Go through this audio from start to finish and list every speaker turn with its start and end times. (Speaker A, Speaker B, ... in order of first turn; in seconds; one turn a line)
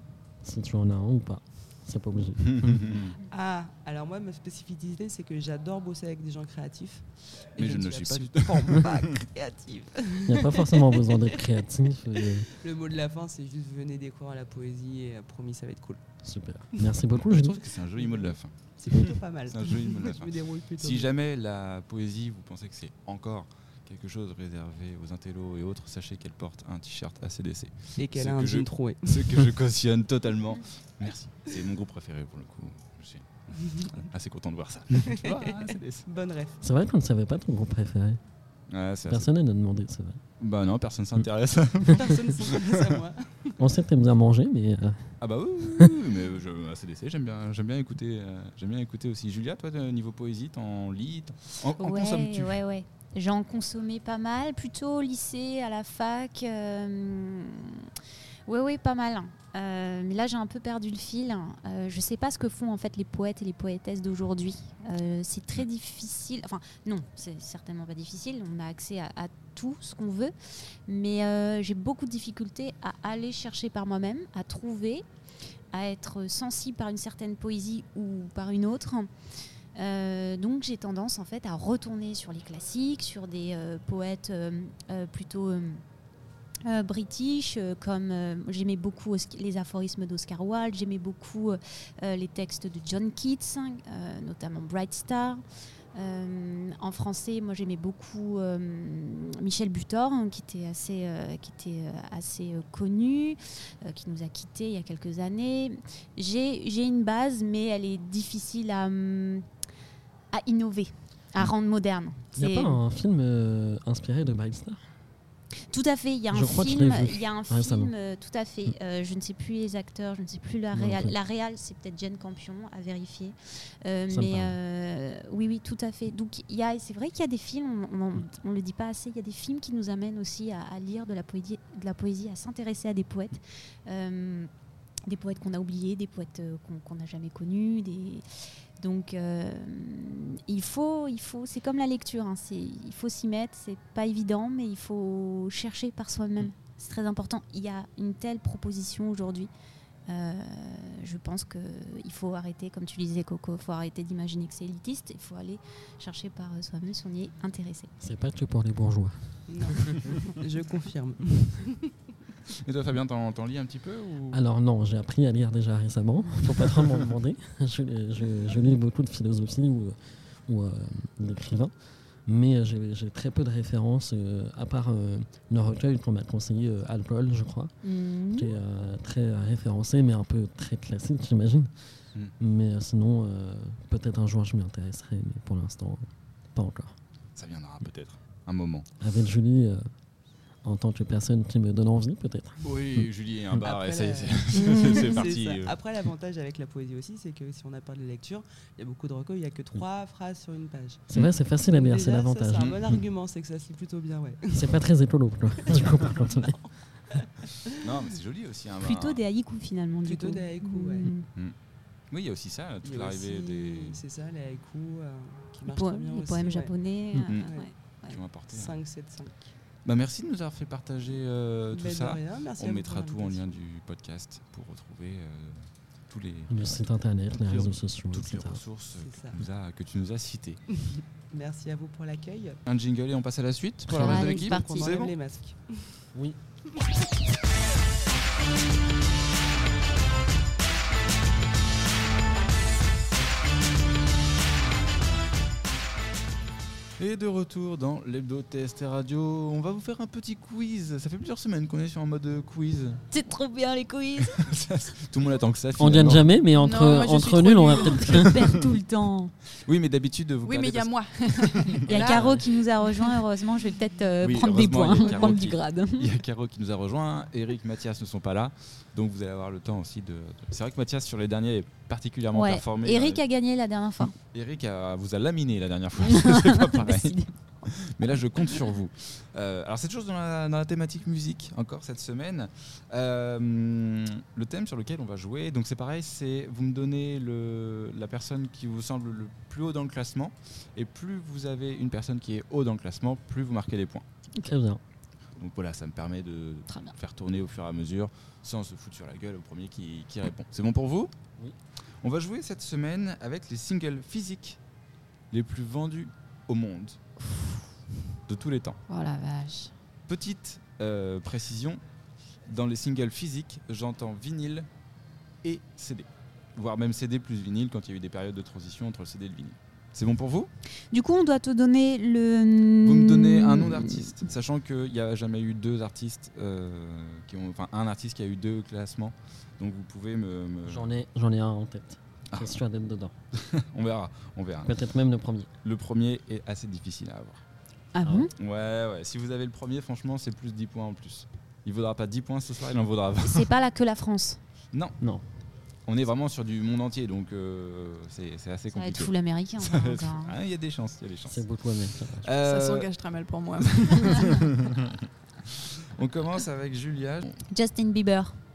Speaker A: 0.4-2.9
Speaker B: 2.4-3.1
Speaker C: 3.3-11.4
Speaker B: 7.6-9.0
Speaker A: 10.2-12.5
Speaker C: 12.2-16.0
Speaker A: 16.2-17.6
Speaker B: 17.2-36.0
Speaker C: 18.0-21.1
Speaker C: 28.0-29.5
Speaker C: 35.0-36.6
Speaker A: 36.6-38.2
Speaker B: 38.7-39.3
Speaker A: 39.1-40.2
Speaker B: 40.4-42.8
Speaker C: 41.9-43.6
Speaker A: 43.6-46.0
Speaker B: 45.2-52.6
Speaker D: 51.8-57.9
Speaker D: 58.5-70.3
Speaker D: 70.8-75.0
Speaker D: 75.7-79.1
Speaker D: 79.7-85.8
Speaker D: 86.6-95.4
Speaker D: 95.9-109.4
Speaker D: 110.3-112.8
Speaker A: 112.3-114.8
Speaker D: 115.7-134.5
Speaker A: 116.3-117.9
Speaker A: 120.7-121.1
Speaker A: 124.1-124.6
Speaker D: 135.1-138.2
Speaker D: 138.8-149.5
Speaker D: 150.1-157.9
Speaker A: 158.0-160.0
Speaker C: 159.5-161.9
Speaker B: 162.5-164.4
Speaker A: 164.3-177.7
Speaker D: 177.8-178.5
Speaker A: 178.3-181.7
Speaker A: 182.4-186.9
Speaker B: 187.3-188.8
Speaker A: 189.0-189.8
Speaker A: 190.6-193.0
Speaker B: 192.6-195.8
Speaker C: 193.6-201.1
Speaker D: 194.7-195.1
Speaker A: 201.1-202.7
Speaker C: 201.6-204.8
Speaker A: 204.5-206.6
Speaker C: 205.7-207.7
Speaker B: 207.8-209.2
Speaker D: 208.8-211.3
Speaker C: 210.0-211.1
Speaker B: 212.1-214.0
Speaker C: 212.8-216.7
Speaker D: 215.7-218.2
Speaker C: 217.3-217.7
Speaker B: 218.1-218.8
Speaker C: 218.5-219.5
Speaker B: 219.8-226.8
Speaker C: 221.7-223.6
Speaker A: 226.5-228.6
Speaker B: 227.3-230.6
Speaker C: 229.0-229.4
Speaker C: 230.8-232.6
Speaker B: 232.6-235.1
Speaker D: 233.9-234.9
Speaker C: 233.9-236.0
Speaker B: 247.0-253.0
Speaker D: 253.1-254.5
Speaker B: 254.2-256.3
Speaker A: 255.8-258.3
Speaker E: 256.5-258.2
Speaker D: 257.8-259.3
Speaker B: 259.6-262.4
Speaker E: 260.4-262.4
Speaker D: 261.8-266.1
Speaker B: 264.2-273.2
Speaker E: 265.0-265.4
Speaker D: 272.3-274.1
Speaker B: 274.0-294.0
Speaker D: 276.0-277.7
Speaker A: 294.4-294.8
Speaker B: 295.4-301.1
Speaker B: 302.0-304.6
Speaker B: 305.3-307.0
Speaker B: 308.3-308.8
Speaker D: 308.9-309.7
Speaker B: 310.1-311.8
Speaker B: 312.5-314.7
Speaker B: 315.4-320.5
Speaker D: 320.9-324.1
Speaker B: 322.8-330.9
Speaker A: 330.6-333.1
Speaker B: 333.3-334.7
Speaker A: 334.6-335.5
Speaker B: 335.6-337.4
Speaker D: 337.9-338.3
Speaker A: 338.0-338.3
Speaker B: 338.4-343.5
Speaker D: 343.2-344.4
Speaker B: 344.7-345.0
Speaker B: 345.9-351.5
Speaker D: 348.7-350.3
Speaker A: 351.3-352.3
Speaker B: 352.0-352.9
Speaker E: 352.4-354.4
Speaker B: 353.7-357.4
Speaker D: 357.5-358.4